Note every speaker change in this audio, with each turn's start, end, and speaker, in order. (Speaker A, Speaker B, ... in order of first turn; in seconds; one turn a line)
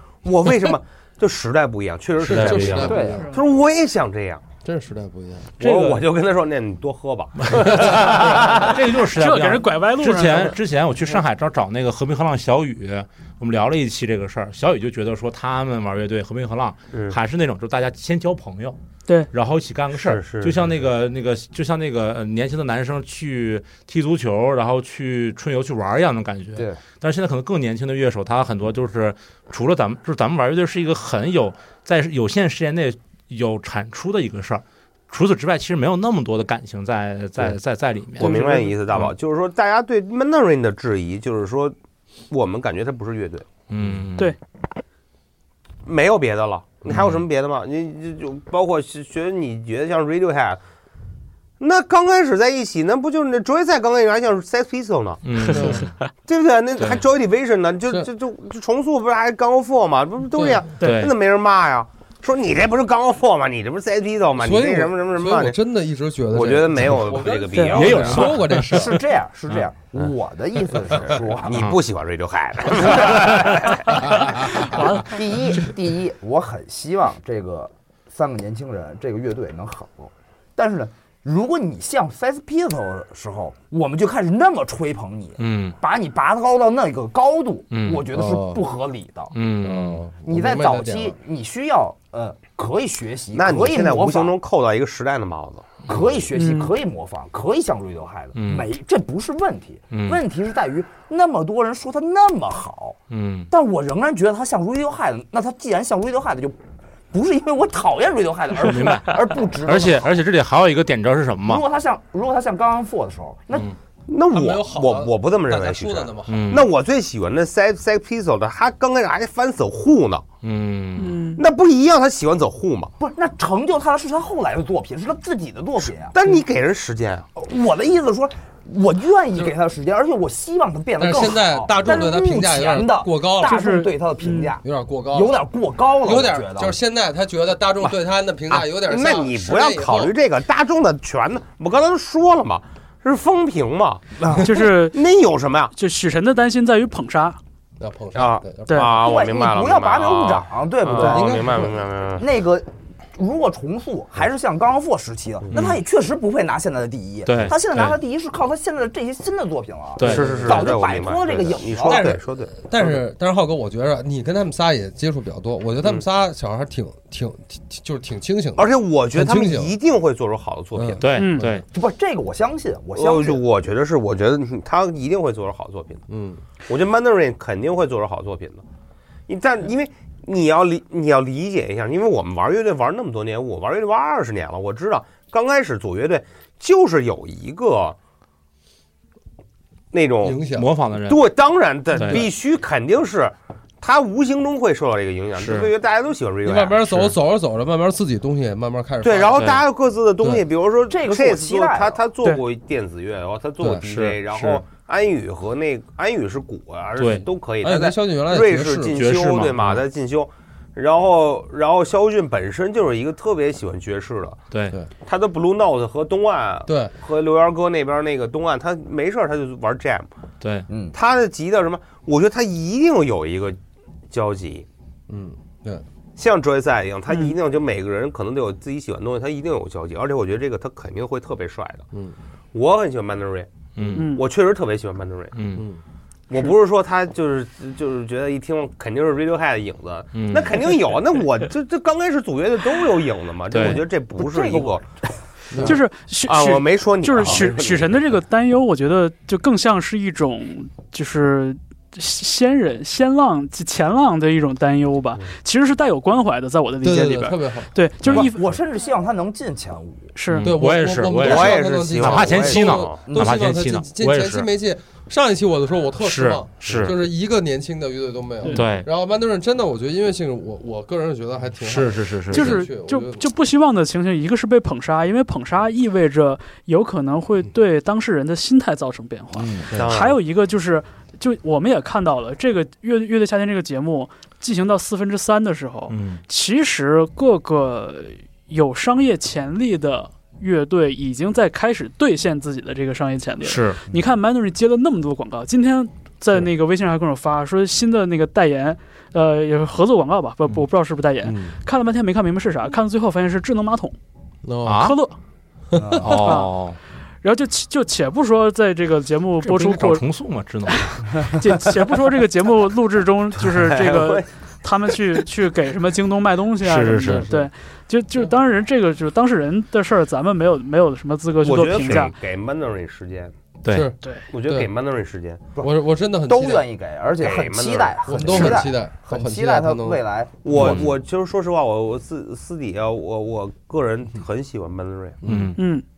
Speaker A: 0.2-4.4
Speaker B: 2.2-3.3
Speaker C: 2.3-3.0
Speaker D: 2.8-3.2
Speaker B: 4.6-5.5
Speaker C: 5.6-6.0
Speaker A: 5.6-8.8
Speaker C: 7.4-18.8
Speaker B: 7.7-8.0
Speaker E: 9.1-10.6
Speaker A: 16.9-17.2
Speaker C: 19.3-38.4
Speaker A: 19.9-20.7
Speaker D: 26.5-26.8
Speaker E: 38.2-38.8
Speaker A: 38.2-41.7
Speaker A: 42.3-43.5
Speaker C: 43.7-44.3
Speaker A: 45.8-50.6
Speaker C: 46.9-47.2
Speaker A: 51.6-65.6
Speaker C: 55.2-55.9
Speaker B: 55.5-55.9
Speaker B: 60.3-60.7
Speaker E: 60.8-61.1
Speaker C: 60.8-61.1
Speaker B: 64.4-69.0
Speaker A: 66.3-68.4
Speaker E: 67.5-67.8
Speaker C: 67.7-68.8
Speaker D: 68.7-71.7
Speaker A: 70.9-74.1
Speaker C: 71.5-71.8
Speaker D: 72.9-74.0
Speaker B: 74.0-74.8
Speaker D: 74.5-89.3
Speaker E: 74.6-75.2
Speaker C: 85.4-85.8
Speaker C: 87.7-88.0
Speaker B: 88.1-88.6
Speaker C: 89.3-90.1
Speaker B: 89.6-91.2
Speaker D: 90.2-94.3
Speaker A: 93.3-95.8
Speaker D: 95.9-103.0
Speaker E: 96.3-96.7
Speaker C: 98.3-98.7
Speaker C: 99.9-100.2
Speaker C: 103.1-103.5
Speaker D: 103.5-106.5
Speaker D: 107.1-110.2
Speaker C: 108.6-111.6
Speaker D: 111.4-113.7
Speaker A: 114.1-120.3
Speaker B: 114.3-116.6
Speaker C: 116.3-116.7
Speaker C: 120.4-121.2
Speaker E: 121.0-121.4
Speaker A: 121.3-122.9
Speaker D: 123.0-126.2
Speaker A: 125.8-127.3
Speaker D: 127.3-136.7
Speaker B: 131.0-133.7
Speaker E: 133.4-134.5
Speaker B: 134.6-135.4
Speaker B: 136.0-140.1
Speaker A: 138.5-145.7
Speaker D: 144.2-144.5
Speaker E: 144.4-145.0
Speaker E: 145.7-147.4
Speaker B: 147.8-148.9
Speaker A: 148.1-152.2
Speaker D: 148.9-151.6
Speaker B: 150.9-151.8
Speaker D: 152.2-162.1
Speaker C: 155.5-155.8
Speaker C: 157.2-158.0
Speaker C: 160.0-160.7
Speaker A: 160.0-163.0
Speaker B: 160.0-160.8
Speaker B: 161.8-169.8
Speaker A: 168.6-171.0
Speaker B: 170.7-171.6
Speaker C: 171.0-171.6
Speaker E: 171.1-171.4
Speaker D: 171.7-173.4
Speaker A: 172.9-176.0
Speaker B: 176.1-176.4
Speaker A: 176.7-178.6
Speaker A: 179.3-187.9
Speaker A: 189.9-190.4
Speaker B: 190.2-190.7
Speaker C: 190.5-191.2
Speaker A: 191.1-197.1
Speaker C: 191.9-192.2
Speaker C: 195.4-195.7
Speaker B: 196.4-199.5
Speaker A: 199.0-214.4
Speaker C: 199.3-199.6
Speaker D: 200.9-202.0
Speaker C: 203.8-204.6
Speaker C: 207.0-207.2
Speaker B: 207.6-209.0
Speaker C: 208.9-209.8
Speaker C: 214.5-214.8
Speaker A: 215.0-220.1
Speaker B: 216.7-216.9
Speaker C: 220.4-220.7
Speaker D: 220.7-220.9
Speaker A: 220.9-223.6
Speaker A: 224.1-224.7
Speaker B: 225.1-225.8
Speaker A: 226.2-231.8
Speaker A: 232.5-235.3
Speaker C: 233.8-234.1
Speaker E: 233.9-234.2
Speaker C: 235.3-235.7
Speaker A: 236.3-244.8
Speaker C: 240.1-240.6
Speaker C: 243.5-243.8
Speaker D: 244.2-245.1
Speaker B: 245.5-245.8
Speaker E: 245.6-258.4
Speaker A: 246.3-248.1
Speaker B: 256.8-257.7
Speaker D: 258.1-260.1
Speaker E: 260.1-260.5
Speaker C: 260.3-264.5
Speaker B: 260.4-273.3
Speaker A: 261.2-263.0
Speaker D: 262.5-263.4
Speaker C: 266.0-267.0
Speaker E: 268.4-268.7
Speaker C: 268.5-268.9
Speaker C: 271.6-272.6
Speaker E: 272.3-304.0
Speaker D: 279.3-279.7
Speaker A: 279.7-280.2
Speaker C: 285.9-286.2
Speaker C: 293.4-293.8
Speaker B: 301.2-301.6
Speaker B: 304.4-304.9
Speaker C: 304.6-305.0
Speaker E: 304.8-305.2
Speaker B: 305.7-306.2
Speaker D: 305.8-306.4
Speaker C: 305.9-306.8
Speaker E: 306.2-306.5
Speaker E: 307.2-310.0
Speaker C: 309.4-311.0
Speaker E: 310.7-322.1
Speaker A: 313.5-314.3
Speaker C: 316.6-317.3
Speaker B: 317.0-317.5
Speaker A: 321.4-323.3
Speaker C: 323.6-323.9
Speaker B: 323.7-324.7
Speaker A: 324.3-325.4
Speaker B: 325.6-326.6
Speaker D: 326.3-330.5
Speaker A: 327.2-328.6
Speaker B: 328.1-330.0
Speaker A: 330.4-335.2
Speaker C: 330.5-330.9
Speaker B: 330.5-330.8
Speaker B: 335.2-335.6
Speaker C: 335.2-335.6
Speaker E: 335.6-335.8